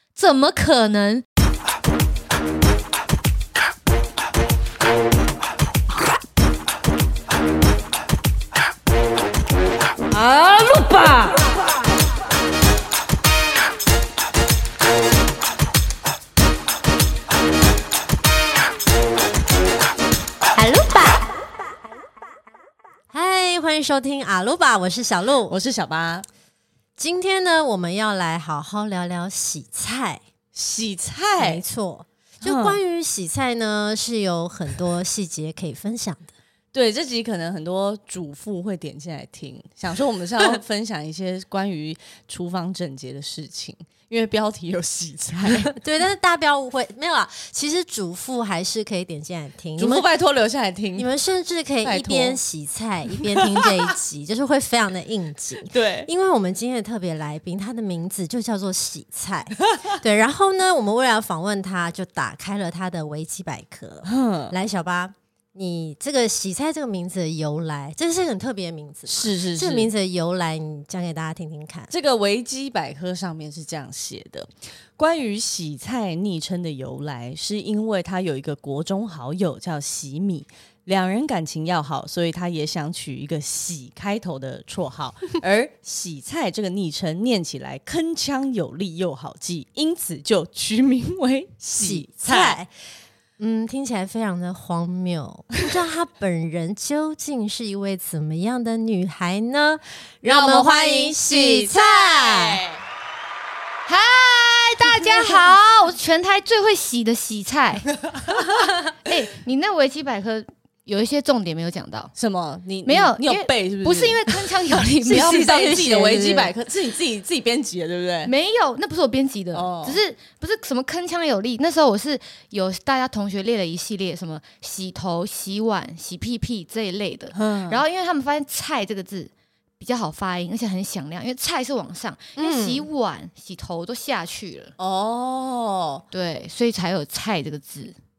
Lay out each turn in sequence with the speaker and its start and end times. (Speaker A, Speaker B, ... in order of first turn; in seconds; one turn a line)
Speaker A: 0.2-1.2
Speaker B: 10.1-11.4
Speaker C: 20.6-21.2
Speaker C: 23.1-25.6
Speaker B: 25.5-26.2
Speaker C: 27.0-30.2
Speaker B: 30.5-31.6
Speaker C: 31.4-36.3
Speaker B: 32.4-32.8
Speaker B: 36.7-45.7
Speaker C: 45.6-50.1
Speaker B: 49.8-51.1
Speaker C: 51.0-71.9
Speaker B: 51.8-52.4
Speaker B: 53.1-53.8
Speaker B: 55.7-56.1
Speaker B: 64.1-64.5
Speaker B: 69.1-69.9
Speaker B: 71.9-92.6
Speaker C: 91.8-92.7
Speaker C: 93.4-102.6
Speaker B: 100.2-102.8
Speaker A: 103.9-108.0
Speaker A: 108.9-112.1
Speaker B: 112.2-114.2
Speaker A: 112.8-116.2
Speaker B: 115.0-118.3
Speaker C: 115.5-116.5
Speaker A: 118.2-134.7
Speaker B: 119.5-120.0
Speaker B: 127.3-127.8
Speaker C: 132.3-132.8
Speaker B: 134.8-136.0
Speaker A: 136.1-137.9